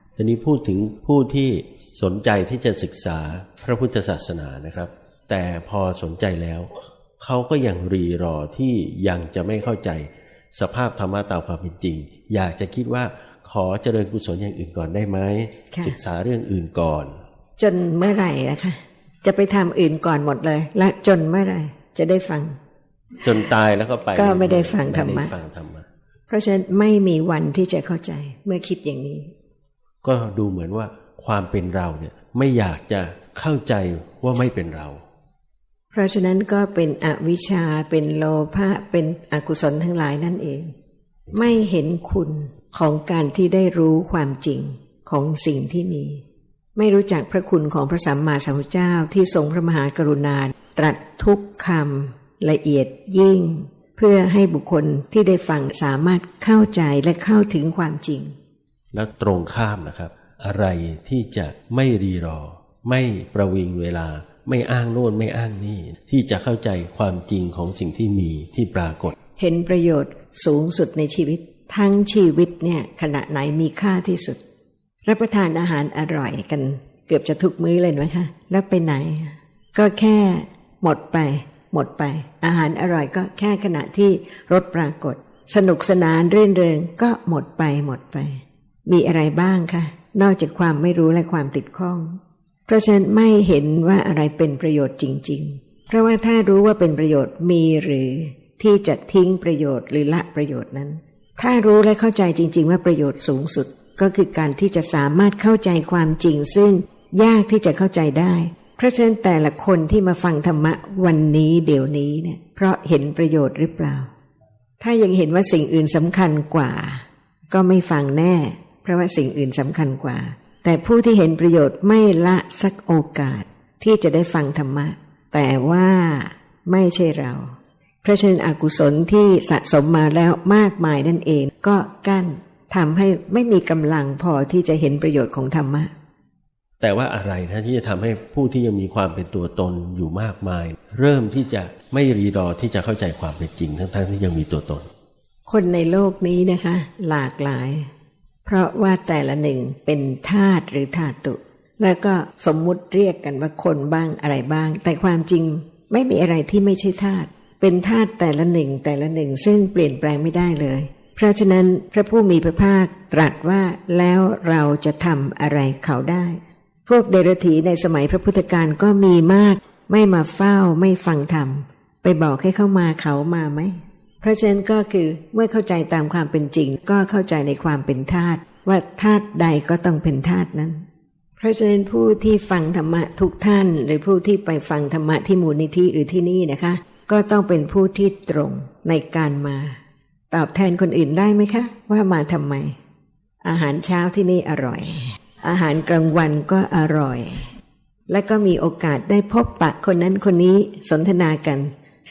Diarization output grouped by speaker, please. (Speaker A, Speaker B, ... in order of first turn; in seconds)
Speaker A: 0.2-17.1, 23.2-25.9, 30.0-35.0, 58.9-69.1, 136.8-144.9
Speaker B: 17.6-22.6, 24.1-25.3, 26.3-29.3, 35.9-40.7, 41.3-46.2, 46.8-58.3, 69.4-74.4, 75.0-114.1, 114.8-135.9, 145.5-147.9, 148.4-180.8, 181.4-189.8, 190.3-192.8, 193.4-197.5, 198.1-201.7